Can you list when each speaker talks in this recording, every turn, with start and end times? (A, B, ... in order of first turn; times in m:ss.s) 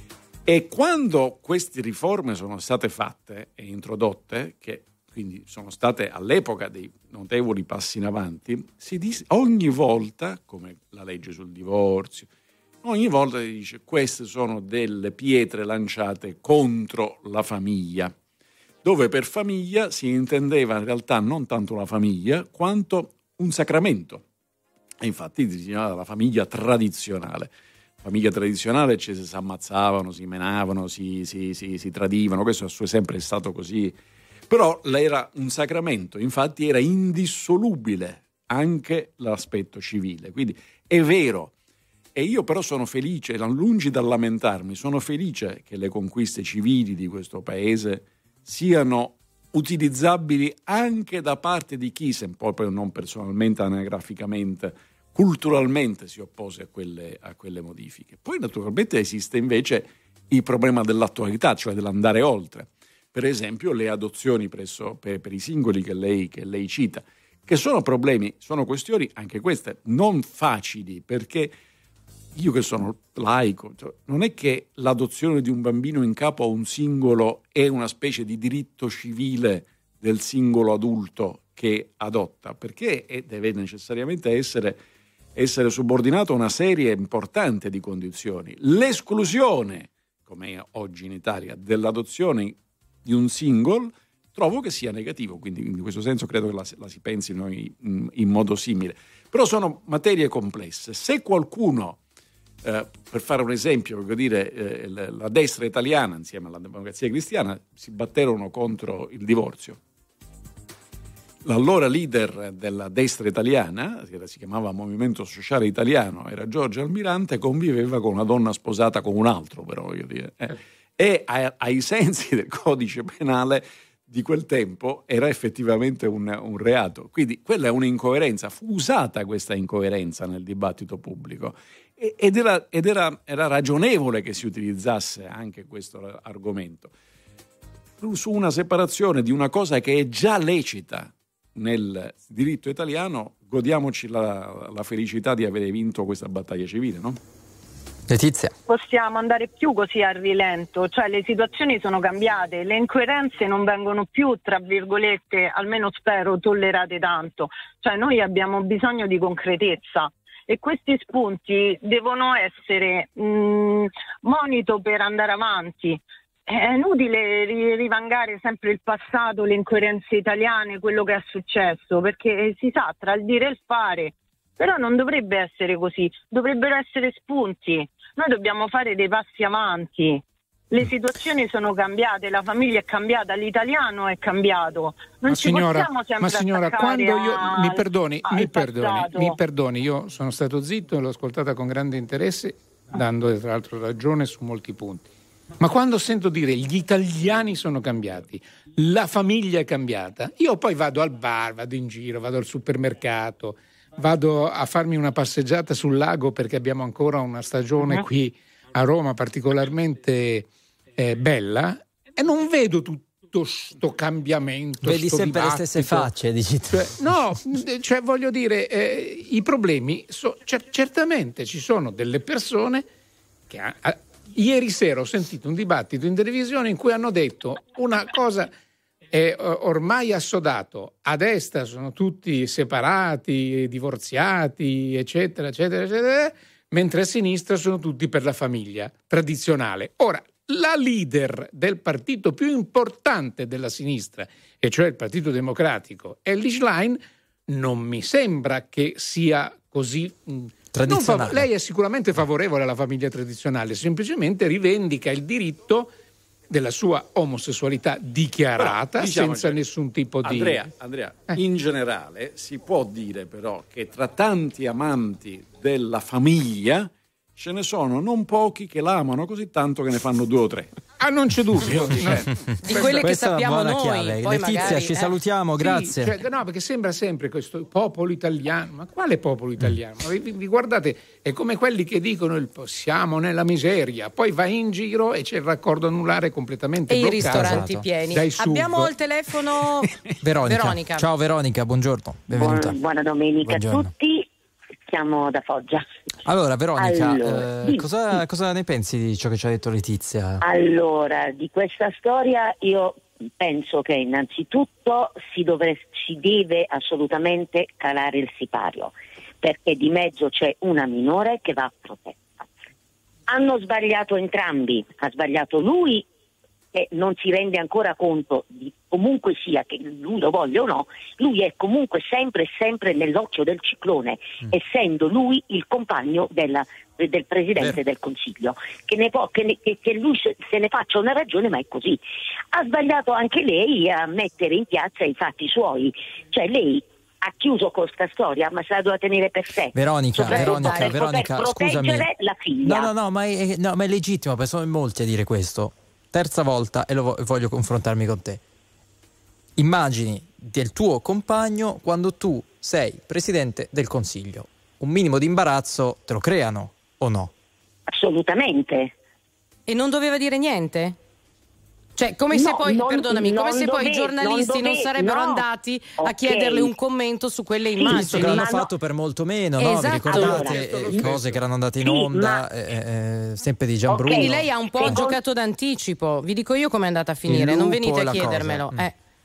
0:00.4-0:12.3 A
0:12.8-0:18.1 A
0:18.8-0:24.2 A
0:25.0-0:27.5 A
0:28.0-0:33.9 A
0:34.5-0:41.5 A
0:42.1-1:11.5 A
1:12.4-1:24.8 A
1:25.3-1:42.0 A
1:42.6-1:49.8 A
1:51.4-2:16.9 A
2:18.0-2:27.2 A
2:28.1-2:28.5 B
2:28.7-3:09.3 C
3:05.2-3:15.1 D
3:15.6-3:36.1 D
3:34.8-3:37.1 B
3:36.7-3:42.9 D
3:43.5-3:48.5 D
3:49.1-4:15.9 D
4:10.7-4:11.5 B
4:16.5-4:20.6 D
4:18.6-4:19.6 A
4:20.2-4:30.7 A
4:31.0-4:33.0 D
4:31.8-4:32.2 A
4:32.1-4:36.1 B
4:32.6-4:35.1 E
4:35.6-4:48.9 D
4:46.9-4:49.9 E
4:47.2-4:47.8 B
4:50.2-4:52.8 B
4:50.4-4:51.1 E
4:52.3-4:54.3 F
4:53.4-4:53.9 B
4:54.9-4:55.8 F
4:56.2-5:00.4 B
4:56.8-4:58.2 F
5:00.4-5:12.6 F
5:13.3-5:16.1 F
5:16.7-5:32.0 F
5:27.6-5:27.8 B
5:32.5-5:42.9 F
5:39.7-5:42.1 B
5:40.2-5:41.0 E
5:42.6-5:48.4 B
5:49.6-5:57.3 B
5:57.9-5:58.9 F
5:59.7-6:01.0 E
6:02.0-6:08.5 E
6:02.3-6:05.4 F
6:06.0-6:06.7 F
6:07.8-6:08.7 F
6:07.8-6:15.1 B
6:09.6-6:11.0 E
6:10.0-6:11.1 F
6:11.0-6:11.4 A
6:11.8-6:12.4 F
6:13.9-6:15.2 F
6:14.0-6:18.9 E
6:17.3-6:18.9 B